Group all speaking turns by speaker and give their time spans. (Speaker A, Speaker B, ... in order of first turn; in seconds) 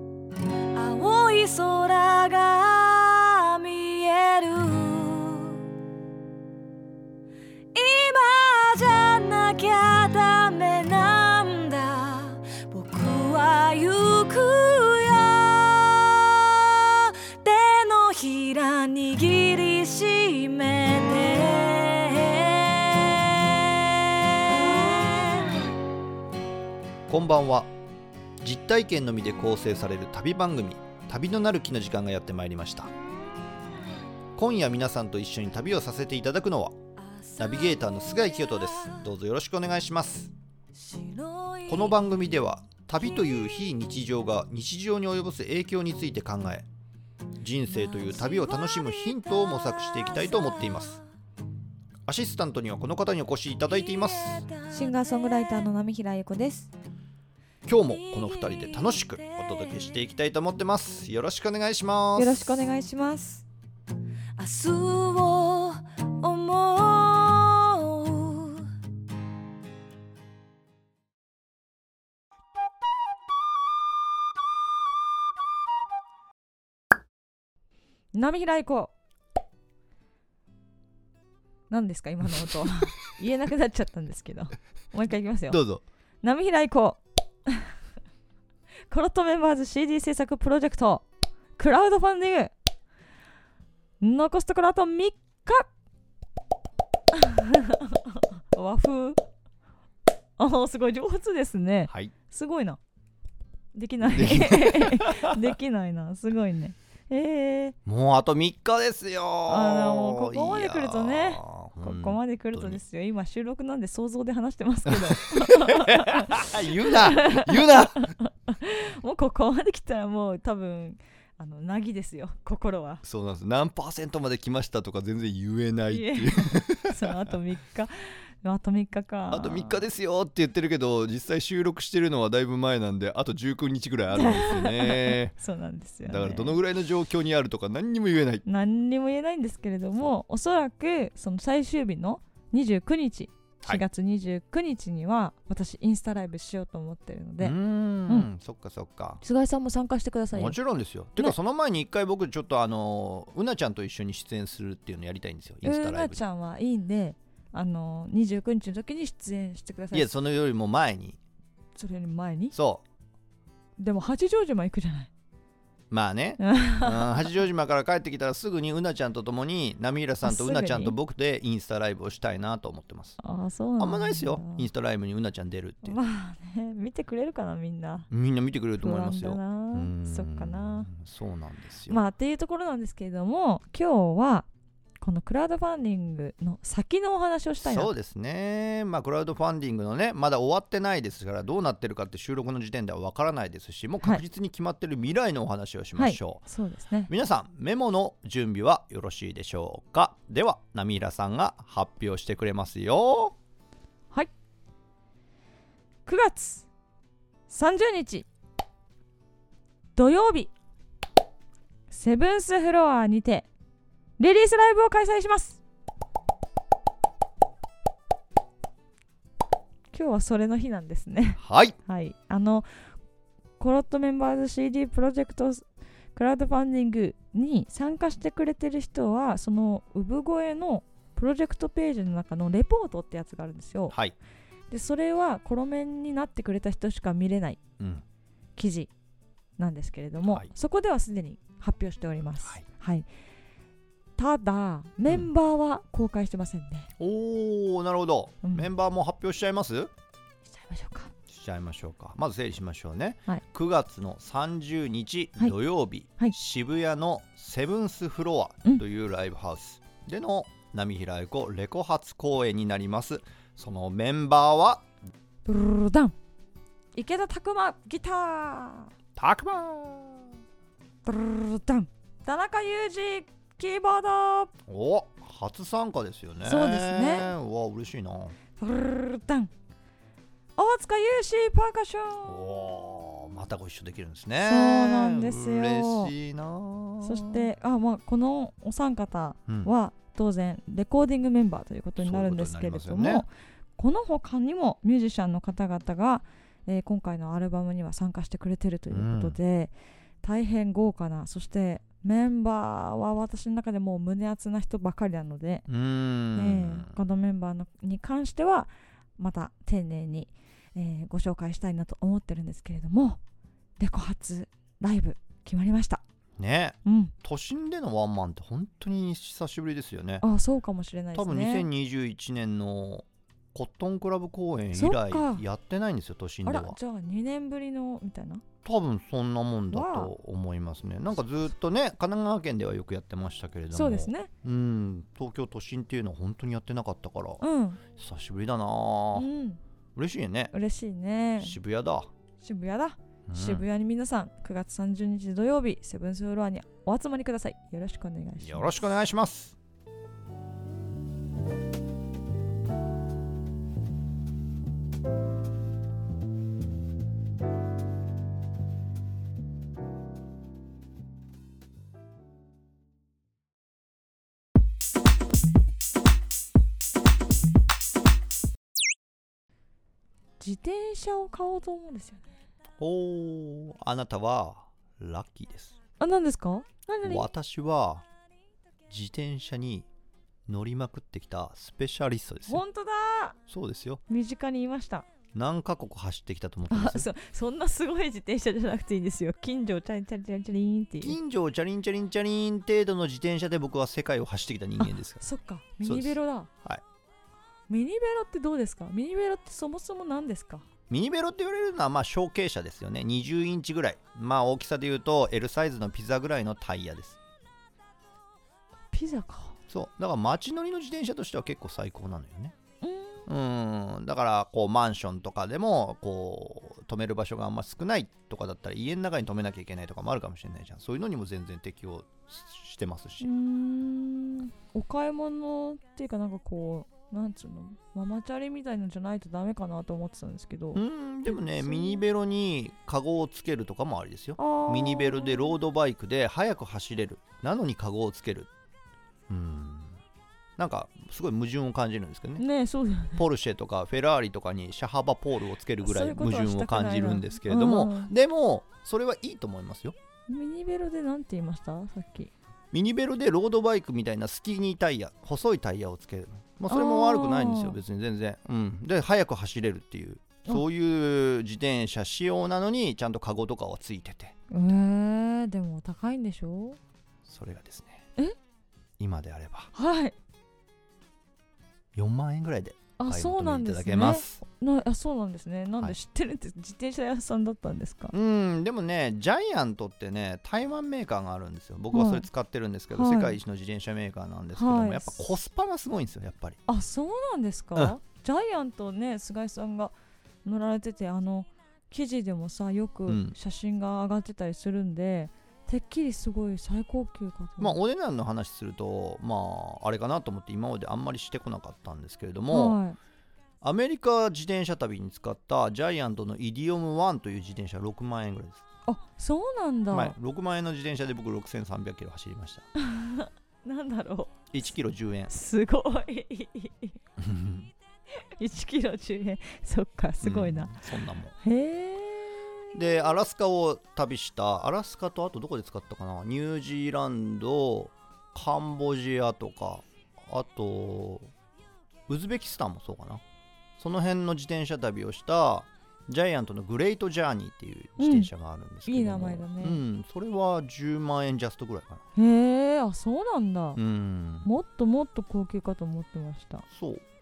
Speaker A: 0.7-5.7, 7.7-25.7, 37.0-39.1, 40.7-42.3, 43.2-43.5, 47.7-51.0, 53.8-55.6, 57.7-60.0, 64.4-68.7
Speaker B: 27.1-27.7, 28.4-32.9, 34.4-36.8, 37.4-40.3, 41.7-46.7, 47.4-51.0, 52.0-54.5, 57.6-62.6, 85.5-85.8, 104.0-105.5, 107.8-112.8, 114.9-118.1, 123.0-127.2, 129.3-135.3, 136.0-138.4, 147.4-149.2, 150.3-156.2, 159.9-161.2, 162.5-162.8, 165.9-173.2, 173.8-176.0, 178.1-182.0, 187.6-196.4, 197.1-203.3, 221.4-221.8, 233.9-234.2, 237.8-238.0, 247.0-249.9, 251.3-264.9, 269.2-270.4, 274.7-278.4, 282.2-287.5, 289.5-289.7, 292.0-293.2, 298.9-299.4, 305.7-307.0, 316.4-320.2, 321.1-326.8, 328.6-337.4, 337.9-339.3, 339.9-340.5, 341.4-342.1, 343.3-343.6, 348.4-349.6, 372.8-375.8, 377.0-378.0, 378.9-379.9, 380.5-382.6, 383.5-384.0, 385.3-387.1, 391.0-395.2, 395.8-396.8, 400.9-407.2, 409.7-412.5, 413.3-423.3, 430.7-438.5, 439.3-440.0, 440.6-442.4, 443.1-449.9, 452.7-464.3, 467.2-468.0, 469.0-469.7, 471.9-474.4, 478.1-486.6, 493.1-493.4, 497.6-502.8, 503.6-508.6, 509.9-512.7, 514.5-515.3, 517.2-517.7, 520.2-521.3, 522.7-531.3, 532.1-533.2, 533.8-542.0, 543.8-544.5, 546.7-547.0
Speaker C: 54.7-56.7, 62.1-63.4, 78.1-78.9, 81.7-85.6, 86.2-87.7, 88.9-91.0, 91.6-92.5, 94.0-95.7, 97.1-99.2, 100.4-102.8, 103.7-107.7, 109.5-123.0, 125.9-129.8, 134.1-136.6, 138.4-147.6, 149.2-150.6, 155.6-160.1, 161.8-162.6, 163.8-165.1, 166.4-167.3, 170.2-170.9, 173.2-174.7, 175.8-178.1, 178.8-180.9, 181.9-184.5, 185.0-187.9, 196.0-197.1, 206.1-206.7, 207.5-208.3, 209.9-210.5, 211.9-213.5, 214.2-215.6, 219.9-222.7, 223.6-234.0, 234.7-237.6, 238.6-238.9, 239.6-243.1, 244.2-246.9, 248.4-248.7, 250.4-251.1, 265.4-266.1, 266.9-268.9, 271.0-274.5, 276.4-277.3, 278.6-279.5, 280.6-282.4, 284.4-286.1, 287.0-305.7, 306.3-313.2, 313.8-316.0, 316.8-317.1, 320.2-321.7, 324.7-325.4, 326.4-328.4, 329.7-330.1, 333.7-334.3, 337.4-337.8, 339.1-339.6, 340.5-341.6, 342.4-348.8, 370.4-372.3, 376.0-377.3, 382.5-383.4, 384.1-385.1, 386.7-391.2, 394.8-396.5, 397.7-400.6, 408.9-409.6, 412.8-413.3, 423.2-432.0, 434.4-435.6, 442.4-443.2, 445.8-448.1, 450.3-452.3, 456.7-457.8, 464.5-466.8, 469.7-470.1, 473.0-478.1, 481.9-482.3, 482.9-483.4, 484.5-485.2, 486.7-489.9, 490.4-497.8, 502.5-503.0, 508.9-510.1, 512.8-514.5, 515.3-517.0, 518.1-520.8, 521.4-522.8, 538.0-538.3, 538.9-539.8, 542.1-543.8, 544.4-546.6